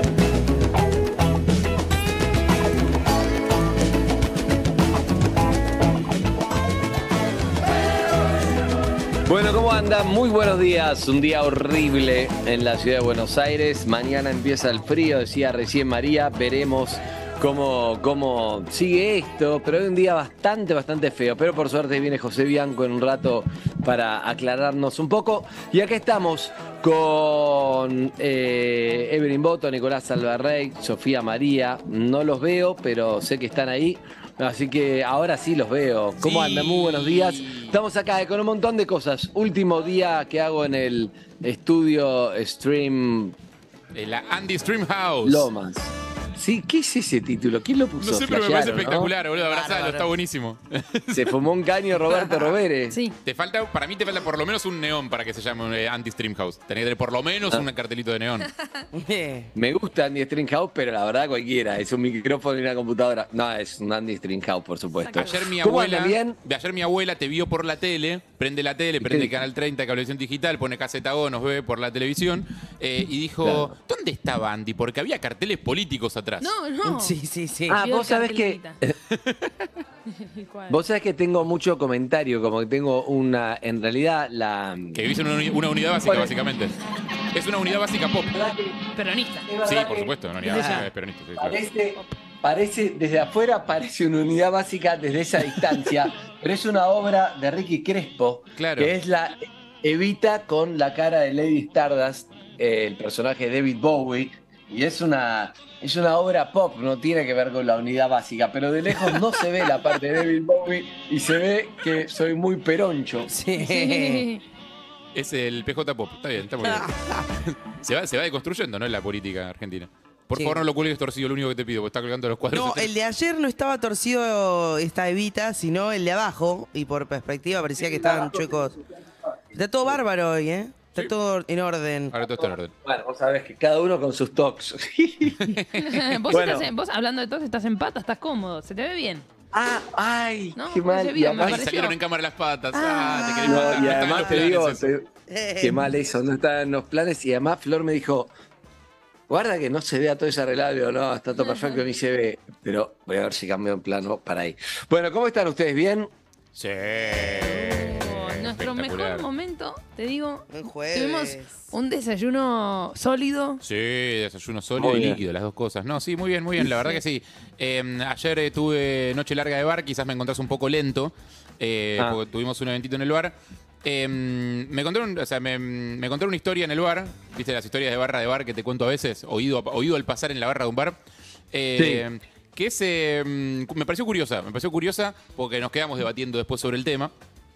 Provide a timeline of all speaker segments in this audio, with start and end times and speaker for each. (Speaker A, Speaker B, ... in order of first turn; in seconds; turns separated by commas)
Speaker A: 9.3-43.4, Speaker B: 36.2-37.8, Speaker B: 43.9-45.5, Speaker A: 45.2-49.1, Speaker B: 48.0-51.3, Speaker C: 49.4-50.1, Speaker A: 51.1-53.0, Speaker D: 52.9-53.2, Speaker B: 53.2-58.5, Speaker C: 58.9-59.5, Speaker A: 59.5-66.4, Speaker D: 65.0-65.3, Speaker B: 65.1-76.5, Speaker A: 69.0-69.3, Speaker A: 73.4-73.7, Speaker D: 76.4-77.2, Speaker C: 76.8-77.8, Speaker A: 77.7-79.0, Speaker D: 77.7-78.8, Speaker B: 79.1-79.5, Speaker D: 80.1-80.8, Speaker A: 80.7-85.0, Speaker B: 85.0-86.8, Speaker A: 86.0-86.3, Speaker B: 87.3-88.3, Speaker A: 88.3-88.8, Speaker D: 89.0-89.5, Speaker A: 89.5-90.8, Speaker B: 89.7-91.6, Speaker D: 90.5-90.9, Speaker A: 91.4-113.3, Speaker B: 98.6-98.9, Speaker C: 113.3-114.2, Speaker D: 113.5-114.4, Speaker B: 115.2-122.9, Speaker C: 116.6-117.3, Speaker C: 120.3-120.6, Speaker C: 122.5-128.8, Speaker A: 127.8-128.8, Speaker C: 129.6-132.1, Speaker B: 132.1-132.7, Speaker A: 132.4-135.6, Speaker B: 135.4-136.0, Speaker D: 135.8-139.3, Speaker A: 136.3-136.7, Speaker A: 139.5-141.7, Speaker D: 140.6-142.0, Speaker B: 141.4-144.9, Speaker D: 142.7-143.9, Speaker A: 143.5-145.1, Speaker C: 145.3-145.8, Speaker A: 145.6-148.3, Speaker A: 149.3-156.1, Speaker B: 156.6-159.3, Speaker D: 157.6-163.6, Speaker C: 160.5-161.5, Speaker B: 163.6-181.0, Speaker A: 164.8-165.2, Speaker B: 181.5-187.1, Speaker A: 181.8-182.1